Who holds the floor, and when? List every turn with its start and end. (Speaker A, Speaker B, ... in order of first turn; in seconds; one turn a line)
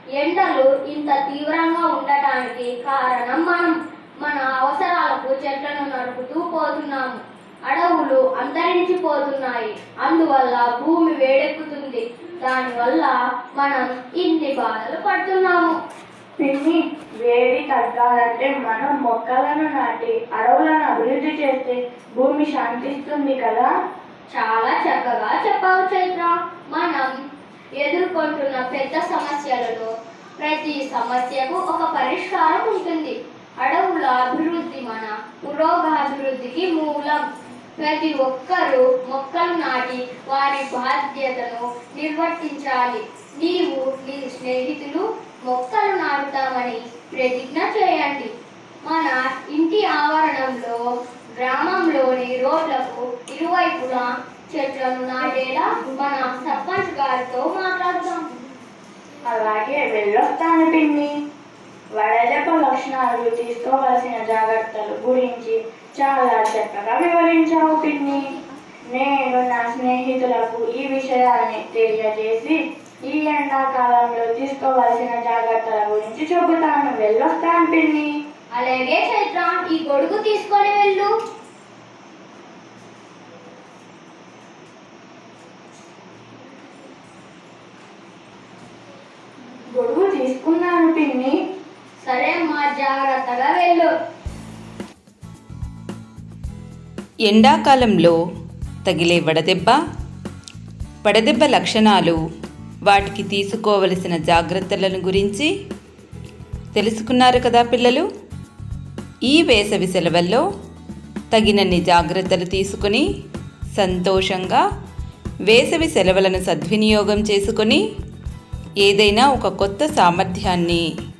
Speaker A: 0.2-15.8
Speaker B: 16.4-23.7
Speaker A: 24.3-27.1
Speaker A: 27.8-37.2
Speaker A: 37.8-48.3
Speaker A: 48.8-50.8
Speaker A: 51.4-58.3
Speaker B: 59.2-61.1
Speaker B: 62.0-68.3
Speaker B: 68.9-78.1
Speaker A: 78.5-81.1
Speaker B: 89.8-91.3
Speaker A: 92.0-93.9
Speaker C: 97.2-98.2
Speaker C: 98.8-99.8
Speaker C: 101.0-102.2
Speaker C: 102.9-105.5
Speaker C: 106.7-108.1
Speaker C: 109.3-110.4
Speaker C: 111.3-113.0
Speaker C: 113.8-114.6
Speaker C: 115.5-117.8
Speaker C: 118.8-120.8